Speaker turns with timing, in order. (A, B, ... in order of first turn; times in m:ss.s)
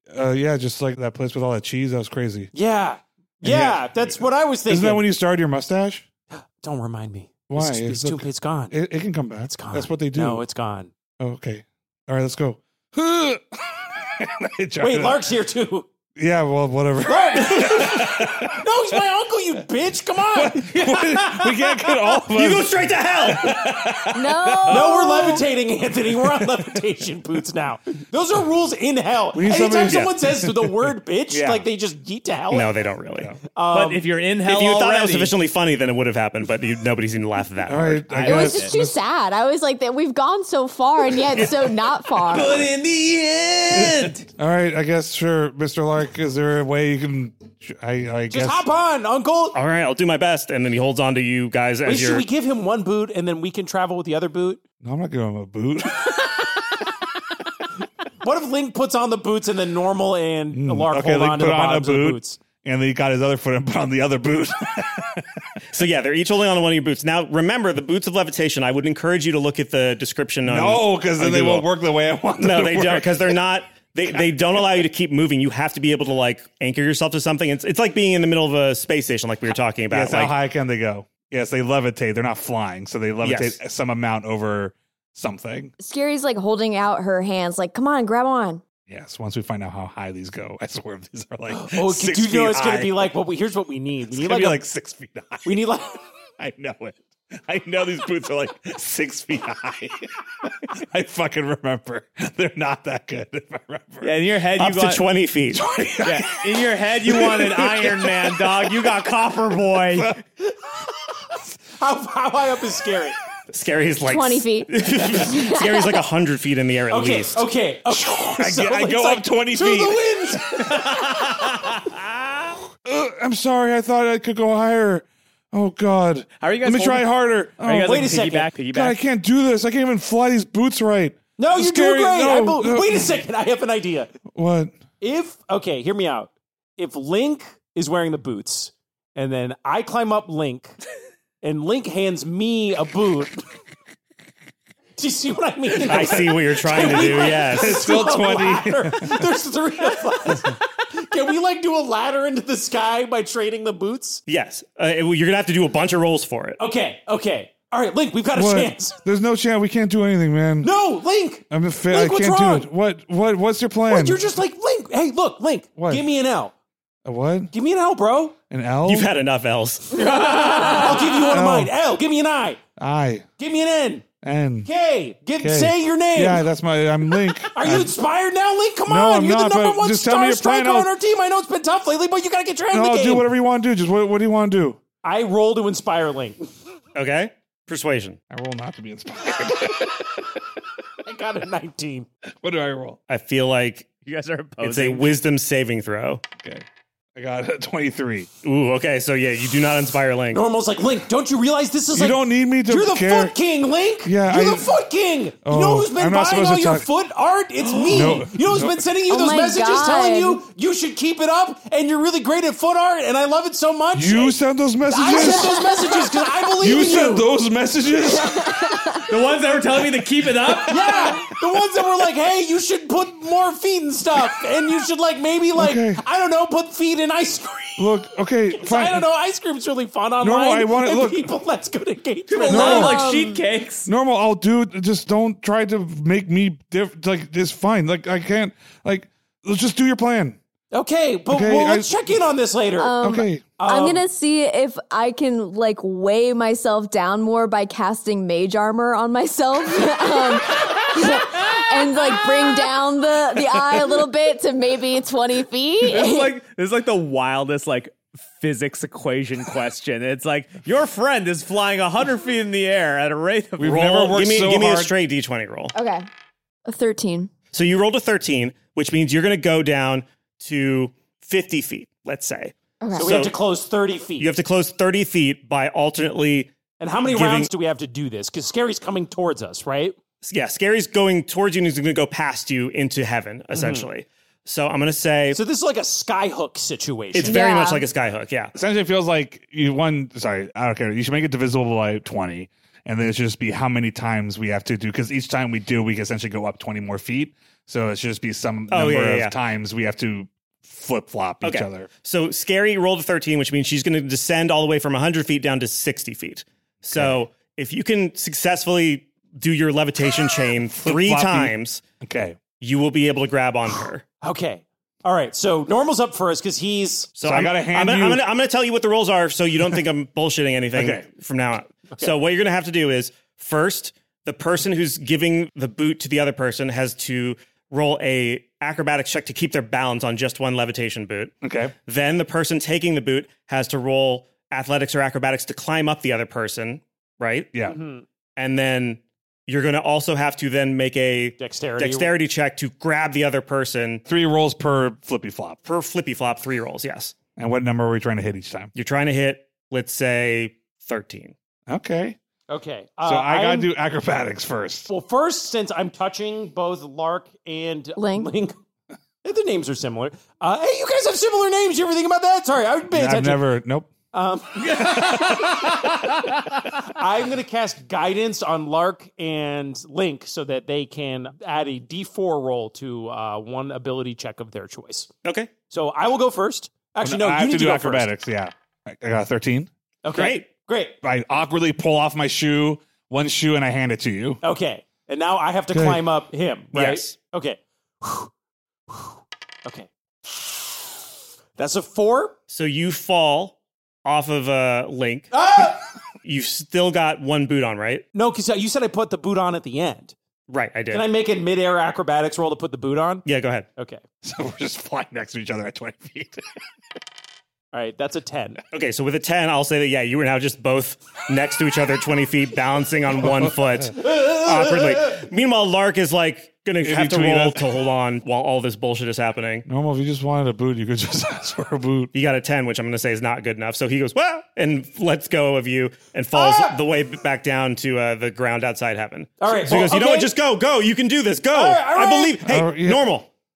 0:00.1-0:02.5 A
0:02.5-0:05.1 B
0:03.4-0:06.1 A
0:06.4-0:08.8 B
0:07.5-0:10.4 A
0:09.4-0:10.9 B
0:11.2-0:15.3 A
0:14.8-0:15.9 B
0:16.2-0:18.7 A
0:17.0-0:20.9 B
0:20.4-0:25.4 A
0:22.3-0:23.6 C
0:24.1-0:25.5 D
0:24.7-0:32.7 B
0:26.2-0:26.8 A
0:29.3-0:31.6 A
0:29.8-0:30.1 C
0:32.5-0:33.3 C
0:33.6-0:34.1 B
0:33.7-0:35.3 E
0:34.4-0:38.2 C
0:37.7-0:39.0 A
0:38.1-0:38.7 E
0:38.2-0:42.7 D
0:42.3-0:44.3 E
0:44.4-0:48.6 A
0:48.3-0:49.6 B
0:49.6-0:52.3 C
0:51.8-0:54.6 B
0:54.8-0:56.4 A
0:58.2-1:02.4 B
1:00.5-1:05.6 A
1:05.7-1:11.7 C
1:10.4-1:13.4 A
1:12.4-1:20.4 C
1:19.9-1:25.7 A
1:23.2-1:23.6 C
1:25.8-1:28.6 D
1:28.9-1:33.1 A
1:31.5-1:34.6 B
1:34.1-1:35.6 A
1:35.4-1:36.0 B
1:36.4-1:44.2 A
1:44.0-1:45.0 E
1:44.6-1:45.6 C
1:45.5-1:48.8 A
1:46.0-1:50.2 E
1:49.9-1:50.2 A
1:51.8-1:53.2 B
1:53.5-1:57.4 C
1:54.1-1:56.0 D
1:56.9-2:00.6 B
1:57.9-2:00.9 A
2:00.7-2:02.0 E
2:02.8-2:08.1 A
2:06.4-2:09.0 E
2:07.8-2:08.5 B
2:08.7-2:13.1 A
2:11.4-2:14.1 B
2:14.3-2:14.8 A
2:15.0-2:20.8 B
2:21.4-2:23.4 B
2:25.0-2:34.2 B
2:25.9-2:27.8 C
2:26.8-2:29.2 A
2:34.3-2:36.6 C
2:36.6-2:39.0 B
2:38.3-2:40.7 A
2:40.6-2:42.7 B
2:41.5-2:44.2 A
2:43.9-2:46.5 B
2:45.8-2:46.0 A
2:47.0-2:47.5 A
2:47.5-2:48.4 B
2:48.5-2:49.1 A
2:48.8-2:50.2 C
2:50.0-2:52.6 B
2:51.2-2:51.7 A
2:52.8-2:53.3 A
2:53.4-2:54.1 B
2:54.2-2:54.7 A
2:54.6-2:56.4 B
2:55.4-2:57.9 A
2:57.5-3:03.3 B
2:58.9-3:00.9 A
3:02.7-3:04.8 A
3:05.0-3:06.4 B
3:07.0-3:08.2 C
3:08.3-3:10.4 A
3:11.0-3:12.1 B
3:12.4-3:13.0 A
3:13.1-3:13.9 C
3:14.0-3:15.2 E
3:14.6-3:16.2 C
3:16.4-3:16.6 A
3:17.2-3:18.3 A
3:18.4-3:20.4 C
3:20.3-3:34.4 B
3:21.9-3:23.4 A
3:24.0-3:24.7 A
3:25.4-3:26.9 A
3:27.9-3:28.8 A
3:29.1-3:30.4 D
3:33.9-3:35.7 A
3:34.9-3:37.3 B
3:35.0-3:36.1 D
3:36.6-3:38.9 A
3:38.2-3:39.0 D
3:39.1-3:40.8 E
3:40.7-3:47.9 B
3:45.6-3:46.0 A
3:47.8-3:49.1 A
3:48.5-3:52.8 B
3:50.2-3:51.3 A
3:52.3-3:53.9 E
3:52.5-3:53.0 A
3:52.6-3:53.4 D
3:53.9-4:00.4 A
4:00.7-4:03.0 B
4:01.3-4:01.9 A
4:02.8-4:16.3 D
4:03.0-4:03.5 A
4:03.6-4:04.0 B
4:15.8-4:24.2 E
4:23.6-4:24.9 A
4:24.1-4:25.7 C
4:25.7-4:26.1 D
4:26.6-4:27.3 D
4:27.5-4:33.3 C
4:32.8-4:33.3 D
4:33.0-4:34.3 B
4:34.2-4:36.5 C
4:36.8-4:40.0 B
4:37.1-4:37.5 C
4:40.2-4:45.4 C
4:43.5-4:43.9 B
4:45.3-4:47.4 B
4:47.1-4:48.5 C
4:47.2-4:47.8 D
4:48.6-5:01.9 A
4:58.7-4:59.3 C
5:01.4-5:11.8 C
5:06.9-5:07.2 A
5:10.8-5:12.4 A
5:12.6-5:14.0 C
5:14.2-5:17.1 B
5:17.2-5:31.4 C
5:17.2-5:18.2 A
5:20.7-5:21.1 A
5:31.4-5:31.7 A
5:31.9-5:37.5 C
5:37.7-5:38.0 B
5:38.4-5:44.0 C
5:41.4-5:42.1 B
5:44.1-5:45.6 A
5:45.6-5:47.2 C
5:47.4-5:48.7 A
5:48.8-5:51.4 C
5:51.7-5:52.2 A
5:52.5-5:53.7 B
5:53.0-5:54.9 A
5:54.9-5:58.6 B
5:58.0-5:58.3 D
5:59.2-6:03.4 B
6:02.9-6:03.9 A
6:04.1-6:06.1 B
6:06.8-6:15.1 B
6:15.2-6:15.5 C
6:15.7-6:18.1 B
6:17.0-6:19.7 A
6:20.0-6:21.0 B
6:20.1-6:20.4 C
6:21.0-6:24.4 A
6:24.4-6:28.3 B
6:25.7-6:26.0 A
6:26.7-6:27.2 C
6:28.9-6:30.9 B
6:31.6-6:32.4 B
6:32.5-6:35.3 C
6:35.3-6:35.8 B
6:36.2-6:38.0 C
6:38.1-6:40.2 B
6:40.5-6:41.1 C
6:40.9-6:43.2 B
6:43.3-6:43.7 C
6:43.8-6:44.0 B
6:44.2-6:46.4 A
6:47.7-6:48.6 B
6:48.7-6:59.6 C
6:56.8-6:57.7 A
6:59.7-7:02.1 A
7:02.1-7:13.3 C
7:06.3-7:06.8 B
7:09.4-7:10.3 B
7:11.5-7:12.4 B
7:12.5-7:13.0 A